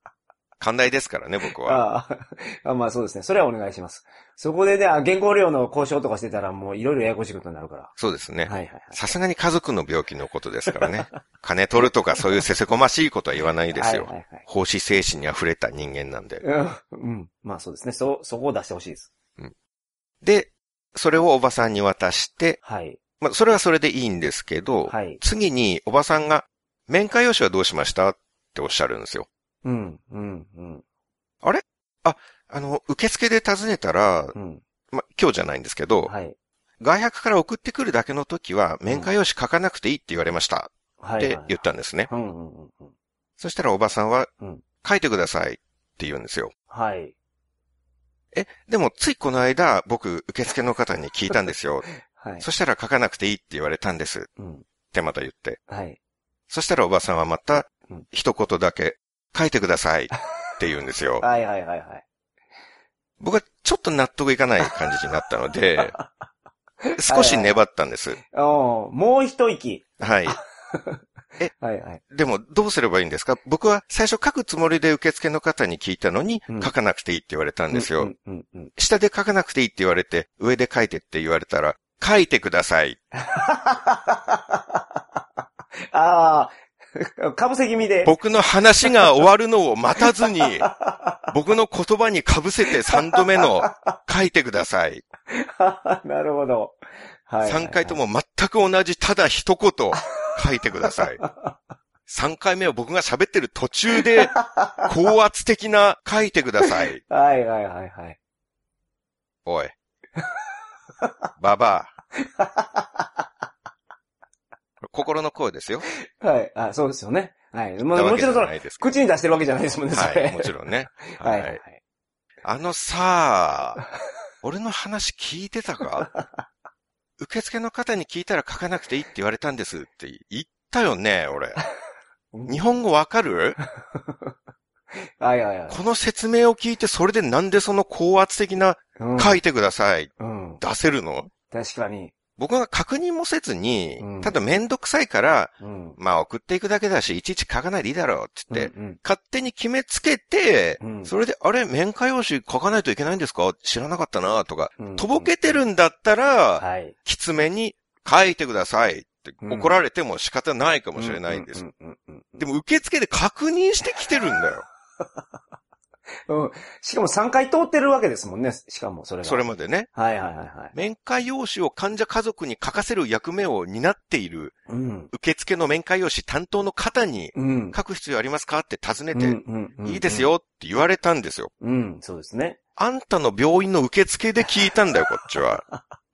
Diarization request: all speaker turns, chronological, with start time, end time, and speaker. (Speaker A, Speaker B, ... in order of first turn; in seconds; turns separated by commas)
Speaker A: 0.6-1.8, Speaker B: 1.6-7.9, Speaker A: 8.0-16.4, Speaker B: 8.4-9.0, Speaker B: 10.8-11.2, Speaker B: 13.7-14.4, Speaker B: 16.4-19.1, Speaker A: 20.2-22.6, Speaker B: 22.6-23.0, Speaker A: 23.2-29.3, Speaker B: 24.9-25.2, Speaker B: 29.6-30.8, Speaker A: 31.4-34.3, Speaker B: 34.3-34.6, Speaker A: 34.9-36.1, Speaker B: 36.0-36.3, Speaker A: 36.8-42.1, Speaker B: 41.0-42.9, Speaker A: 43.4-44.3, Speaker A: 44.8-46.5, Speaker B: 46.7-47.1, Speaker A: 48.3-51.9, Speaker B: 52.1-52.5, Speaker A: 52.4-54.3, Speaker B: 54.4-54.6, Speaker A: 54.9-55.6, Speaker B: 55.7-56.0, Speaker A: 56.5-61.2, Speaker B: 61.2-62.0, Speaker A: 63.2-66.0, Speaker B: 66.8-67.6, Speaker A: 67.0-68.2, Speaker B: 68.2-71.0, Speaker A: 70.0-70.4, Speaker B: 71.5-72.0, Speaker A: 72.1-78.1, Speaker B: 77.7-78.7, Speaker A: 78.8-83.0, Speaker B: 83.2-84.8, Speaker B: 85.9-88.1, Speaker A: 88.0-90.7, Speaker B: 90.0-91.3, Speaker A: 91.3-95.0, Speaker B: 92.9-93.7, Speaker B: 95.3-96.7, Speaker B: 97.3-98.0, Speaker A: 97.4-101.2, Speaker B: 100.9-101.5, Speaker A: 102.1-107.0, Speaker B: 104.0-104.9, Speaker B: 106.7-108.2, Speaker A: 109.5-109.7, Speaker A: 111.4-111.9, Speaker B: 112.2-113.1, Speaker A: 114.8-115.8, Speaker B: 116.2-121.8, Speaker A: 117.8-118.9, Speaker A: 119.9-121.6, Speaker A: 122.4-123.8, Speaker A: 124.4-126.1, Speaker A: 127.2-131.6, Speaker B: 132.3-132.6, Speaker A: 132.5-133.6, Speaker B: 134.0-134.3, Speaker B: 135.2-135.8, Speaker A: 135.7-141.3, Speaker B: 139.0-139.4, Speaker B: 140.2-140.6, Speaker B: 141.5-142.1, Speaker A: 142.4-161.6, Speaker B: 144.0-144.4, Speaker B: 145.6-146.0, Speaker B: 148.5-149.0, Speaker B: 150.8-151.1, Speaker B: 154.8-155.3, Speaker B: 156.6-156.9, Speaker B: 159.4-159.8, Speaker B: 160.9-162.4, Speaker A: 162.4-164.6, Speaker B: 166.3-170.7, Speaker A: 169.2-169.9, Speaker A: 170.7-174.6, Speaker B: 174.7-175.1, Speaker A: 175.1-181.5, Speaker B: 177.3-177.8, Speaker B: 179.1-180.3, Speaker B: 181.6-182.6, Speaker A: 182.8-185.6, Speaker B: 185.3-185.8